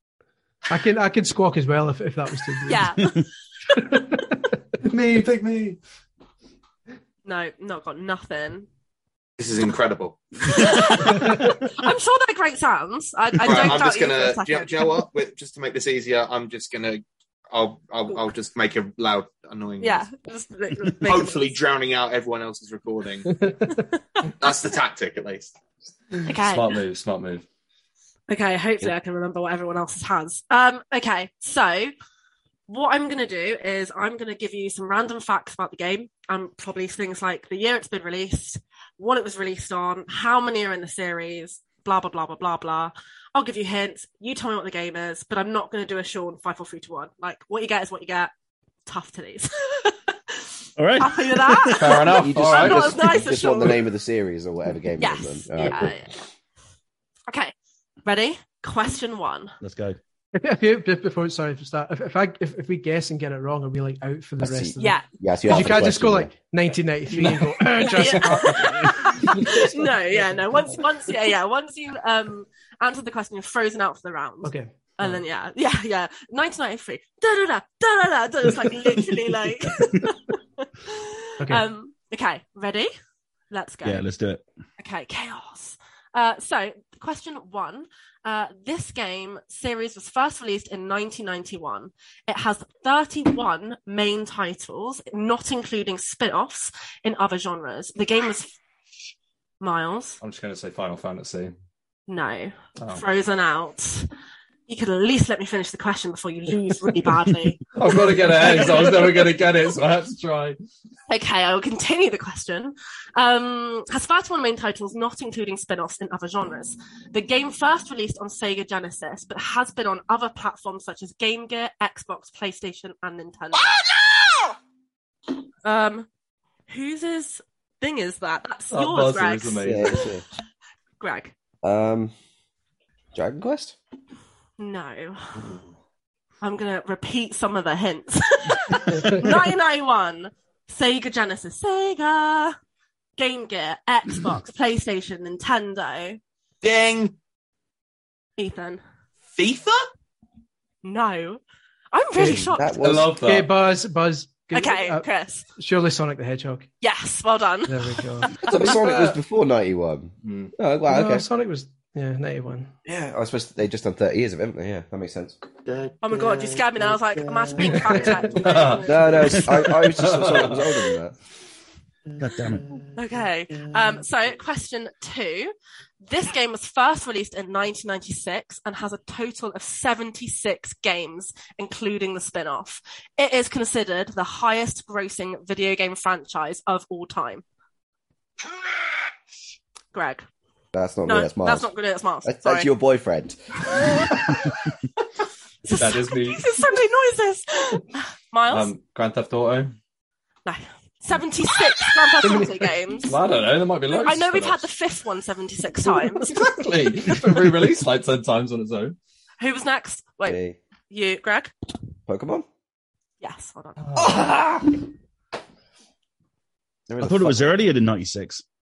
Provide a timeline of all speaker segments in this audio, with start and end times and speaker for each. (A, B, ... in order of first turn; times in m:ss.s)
0:00.7-0:02.8 A
0:02.6-0:03.3 B
0:03.7-0:04.6 A
0:04.8-0:05.8 C
0:07.2-0:08.7 B
0:09.4-0:11.4 D
0:10.4-0:14.7 B
0:13.4-0:20.1 D
0:19.8-0:21.6 B
0:20.9-0:23.6 D
0:23.7-0:24.3 B
0:24.4-0:25.5 D
0:26.1-0:27.4 C
0:26.2-0:26.8 B
0:28.3-0:31.9 B
0:32.7-0:48.3 B
0:48.8-0:53.8 B
0:50.8-0:52.1 E
0:51.8-0:53.1 C
0:52.2-0:56.0 F
0:55.0-0:56.2 B
0:58.0-0:59.5 B
0:59.6-1:00.0 E
1:00.3-1:10.8 A
1:04.4-1:06.3 F
1:04.8-1:05.1 B
1:07.1-1:08.5 C
1:07.8-1:22.9 B
1:14.4-1:15.2 A
1:23.5-1:24.1 B
1:23.8-1:24.4 E
1:24.8-1:38.6 B
1:39.6-1:40.2 B
1:40.2-1:41.5 C
1:42.1-1:44.1 B
1:42.8-1:43.0 C
1:44.7-1:49.4 B
1:47.7-1:50.6 C
1:51.1-2:03.8 B
2:05.6-2:06.1 B
2:06.7-2:10.2 B
2:08.7-2:10.1 C
2:09.6-2:10.2 F
2:11.0-2:11.3 B
2:11.6-2:12.1 F
2:13.1-2:13.8 F
2:14.6-2:15.4 B
2:16.4-2:22.6 B
2:23.2-2:26.2 B
2:26.6-2:27.1 D
2:28.4-2:28.8 B
2:29.3-2:29.9 D
2:30.8-2:31.4 B
2:31.9-2:33.0 B
2:32.3-2:33.2 F
2:32.8-2:33.5 C
2:33.2-2:35.0 A
2:34.5-2:35.4 B
2:35.5-2:36.7 A
2:36.8-2:38.9 B
2:37.7-2:38.4 A
2:38.4-2:41.2 F
2:40.2-2:40.5 C
2:40.9-2:42.7 A
2:42.8-2:45.4 F
2:45.6-2:47.8 D
2:46.0-2:49.7 B
2:47.9-2:48.2 F
2:48.4-2:51.0 C
2:48.8-2:51.1 F
2:52.2-2:52.6 E
2:53.0-3:07.4 B
3:09.9-3:10.2 B
3:10.7-3:11.7 F
3:11.1-3:12.7 B
3:12.2-3:13.8 F
3:13.7-3:14.5 B
3:15.6-3:18.7 B
3:15.7-3:16.4 C
3:18.5-3:19.8 C
3:20.4-3:23.2 B
3:22.2-3:24.7 C
3:23.9-3:26.4 B
3:25.9-3:29.0 C
3:29.4-3:30.4 B
3:30.2-3:30.6 F
3:30.9-3:31.5 B
3:32.1-3:32.4 F
3:33.2-3:33.8 B
3:33.8-3:34.3 C
3:34.0-3:34.7 F
3:36.9-3:37.6 F
3:37.0-3:38.4 E